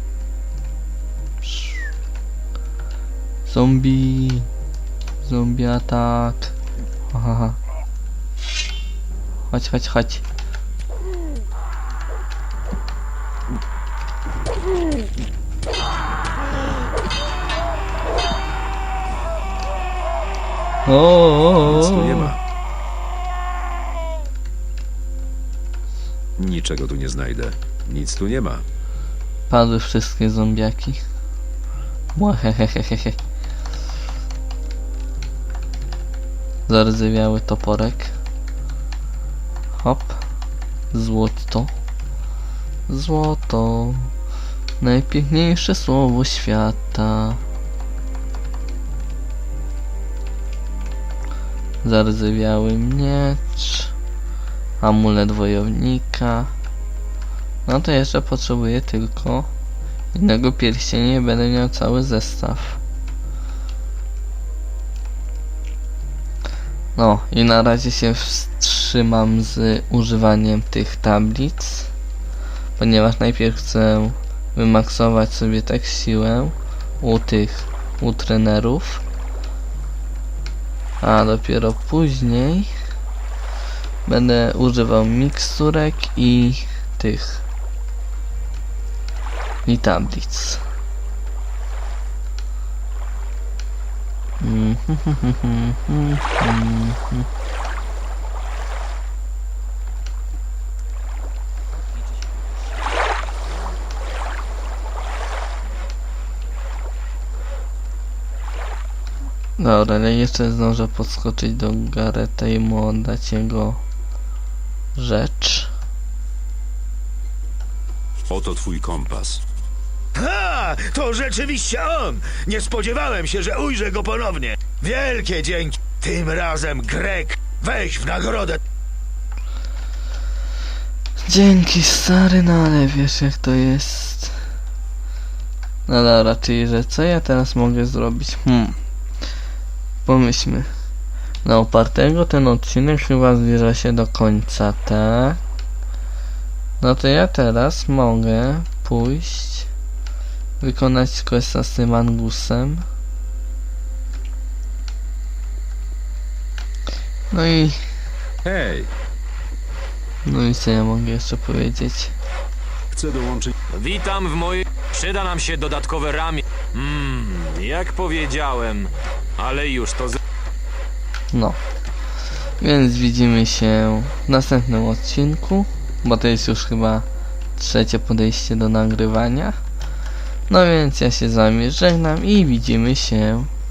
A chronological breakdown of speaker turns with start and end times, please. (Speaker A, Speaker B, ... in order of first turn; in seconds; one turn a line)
Speaker A: 1.4-1.8
Speaker A: 3.5-4.5
Speaker A: 5.2-6.5
Speaker A: 7.1-7.6
Speaker A: 9.5-10.2
Speaker A: 20.8-22.3
Speaker B: 21.6-22.4
Speaker B: 26.4-28.6
Speaker A: 29.5-31.0
Speaker A: 32.1-33.2
Speaker A: 36.7-38.1
Speaker A: 39.8-40.2
Speaker A: 40.9-41.7
Speaker A: 42.9-44.1
Speaker A: 44.8-47.4
Speaker A: 51.8-53.9
Speaker A: 54.8-56.5
Speaker A: 57.6-59.5
Speaker A: 60.1-62.8
Speaker A: 67.0-71.9
Speaker A: 72.8-79.0
Speaker A: 81.0-82.7
Speaker A: 84.0-87.4
Speaker A: 89.7-90.6
Speaker A: 94.4-97.3
Speaker A: 109.6-113.8
Speaker A: 115.0-115.7
Speaker B: 118.3-119.4
Speaker C: 120.1-128.6
Speaker A: 131.3-134.4
Speaker A: 135.9-138.8
Speaker A: 140.0-140.7
Speaker A: 141.4-145.4
Speaker A: 146.8-149.7
Speaker A: 150.6-152.8
Speaker A: 157.3-157.8
Speaker B: 158.4-158.9
Speaker A: 160.2-162.1
Speaker B: 162.9-163.5
Speaker D: 163.7-170.2
Speaker A: 171.3-171.6
Speaker A: 172.6-179.6
Speaker A: 180.5-183.5